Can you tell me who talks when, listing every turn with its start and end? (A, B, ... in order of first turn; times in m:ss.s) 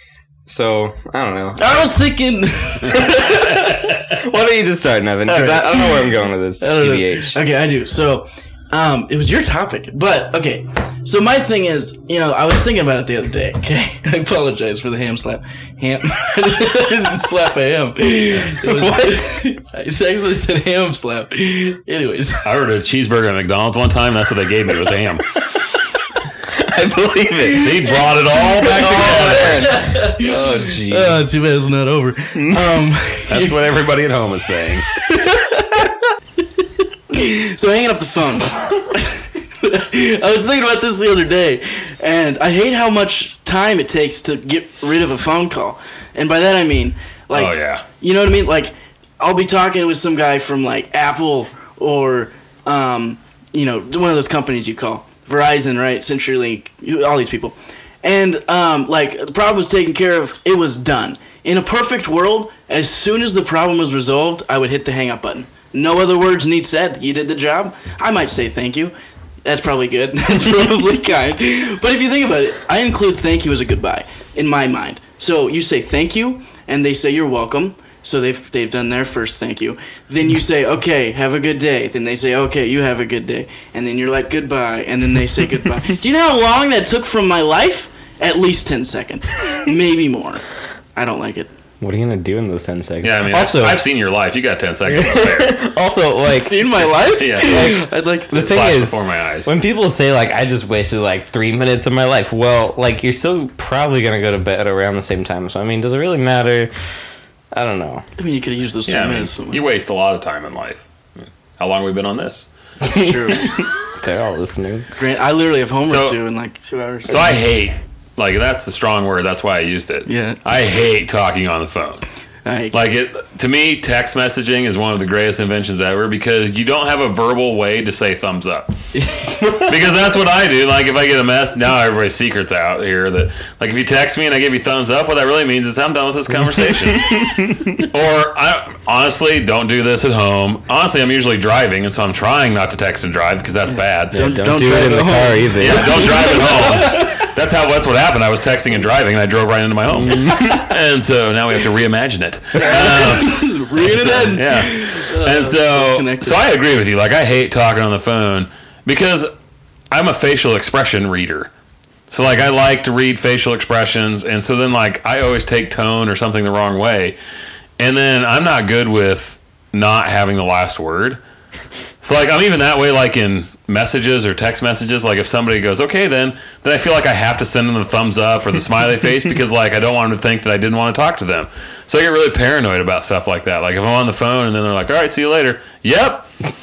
0:00.4-0:01.9 A
0:01.6-0:03.8 B
0:02.9-0:07.4 A
0:05.3-0:22.5 B
0:18.6-0:19.4 A
0:22.4-0:25.4 C
0:26.5-0:27.9 A
0:27.5-0:29.8 C
0:27.8-0:33.6 B
0:28.7-0:31.2 A
0:32.3-0:32.7 A
0:33.3-0:34.9 C
0:35.0-0:36.0 B
0:36.6-1:30.4 B
0:47.3-0:47.8 C
1:30.9-1:31.5 B
1:31.8-1:33.8 A
1:33.0-1:35.6 C
1:34.9-1:36.6 A
1:36.2-1:38.6 B
1:37.2-1:39.5 C
1:37.5-1:37.8 A
1:38.3-1:46.7 A
1:47.5-1:48.0 A
1:48.2-1:49.6 B
1:48.9-1:50.9 C
1:51.6-1:52.5 C
1:52.8-1:54.9 A
1:52.8-1:53.5 B
1:55.0-1:57.4 B
1:55.8-1:56.2 C
1:57.1-2:02.0 C
2:00.0-2:00.4 B
2:02.4-2:02.7 B
2:02.7-2:08.7 C
2:08.9-2:09.7 B
2:09.5-2:24.4 C
2:16.6-2:17.7 A
2:24.1-2:26.9 A
2:24.1-2:27.1 B
2:25.6-2:39.3 C
2:29.9-2:30.7 A
2:32.6-2:33.2 A
2:32.6-2:36.4 B
2:39.9-2:41.5 C
2:42.1-2:47.2 C
2:47.8-2:51.2 C
2:52.0-3:06.3 C